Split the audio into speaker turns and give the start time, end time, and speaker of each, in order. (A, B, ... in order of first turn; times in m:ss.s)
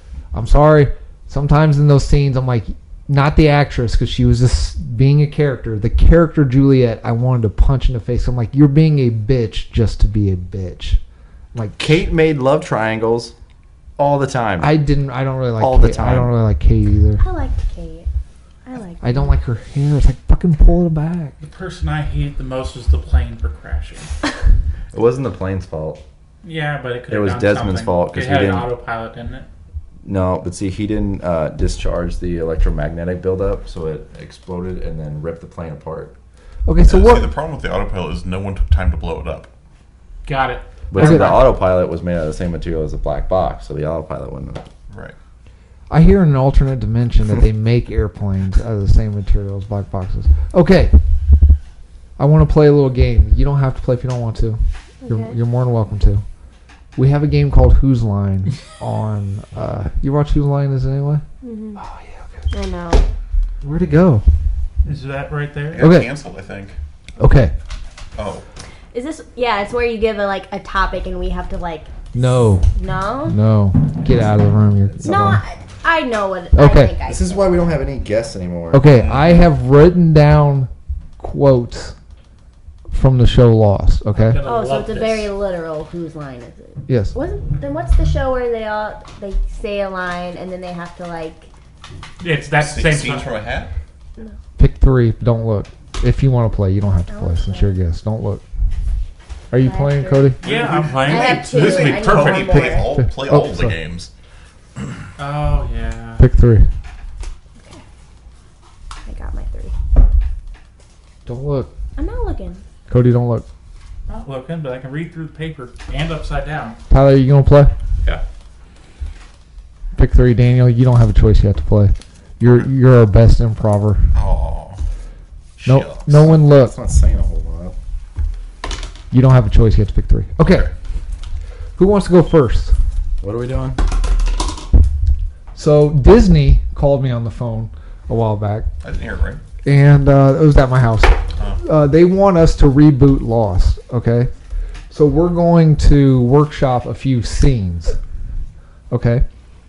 0:00.3-0:11.0 A
0:11.5-0:12.0 A
0:11.8-0:13.3 B
0:14.0-0:14.7 B
0:14.6-0:17.2 A
0:15.6-0:16.3 B
0:17.2-0:18.1 C
0:18.6-0:19.4 C
0:19.0-0:21.4 A
0:21.4-0:24.1 D
0:24.9-0:26.0 B
0:26.4-0:29.5 D
0:27.1-0:28.7 B
0:30.0-0:36.2 B
0:36.7-0:37.3 A
0:36.9-0:39.5 E
0:40.2-0:41.2 D
0:40.9-0:44.6 B
0:40.9-0:41.5 A
0:44.9-0:45.2 E
0:45.9-0:51.0 A
0:52.2-0:56.2 A
0:55.0-0:55.4 C
0:57.0-1:01.2 A
1:01.4-1:01.8 C
1:01.8-1:02.4 A
1:02.5-1:03.1 C
1:03.6-1:04.2 A
1:04.8-1:05.9 D
1:05.7-1:06.8 E
1:05.8-1:06.1 A
1:07.2-1:07.5 A
1:08.2-1:08.4 E
1:08.9-1:11.9 C
1:12.1-1:12.7 A
1:12.8-1:13.4 C
1:13.3-1:15.4 A
1:15.0-1:17.4 C
1:16.6-1:17.0 A
1:17.0-1:18.9 B
1:18.7-1:22.0 A
1:18.9-1:19.5 E
1:22.9-1:24.4 A
1:24.3-1:25.3 D
1:24.4-1:31.5 C
1:26.9-1:27.1 A
1:32.2-1:33.3 D
1:32.6-1:33.7 E
1:34.6-1:38.4 A
1:37.1-1:37.8 C
1:39.5-1:40.4 A
1:39.6-1:40.4 C
1:40.4-1:42.7 D
1:40.4-1:44.1 E
1:41.0-1:42.9 C
1:42.9-1:43.8 A
1:45.2-1:46.2 D
1:46.2-1:46.7 A
1:47.6-1:47.8 C
1:49.1-1:49.8 C
1:51.3-1:51.7 A
1:52.0-1:52.6 C
1:52.9-1:53.5 A
1:54.1-1:56.8 D
1:56.9-1:57.7 A
2:00.0-2:04.1 A
2:04.1-2:04.8 E
2:05.6-2:06.2 E
2:05.7-2:06.8 A
2:06.2-2:07.8 B
2:09.1-2:10.7 A
2:11.8-2:12.7 A
2:13.2-2:13.8 B
2:15.6-2:18.7 A
2:18.8-2:19.4 E
2:19.6-2:24.3 A
2:24.9-2:28.0 A
2:28.9-2:29.2 A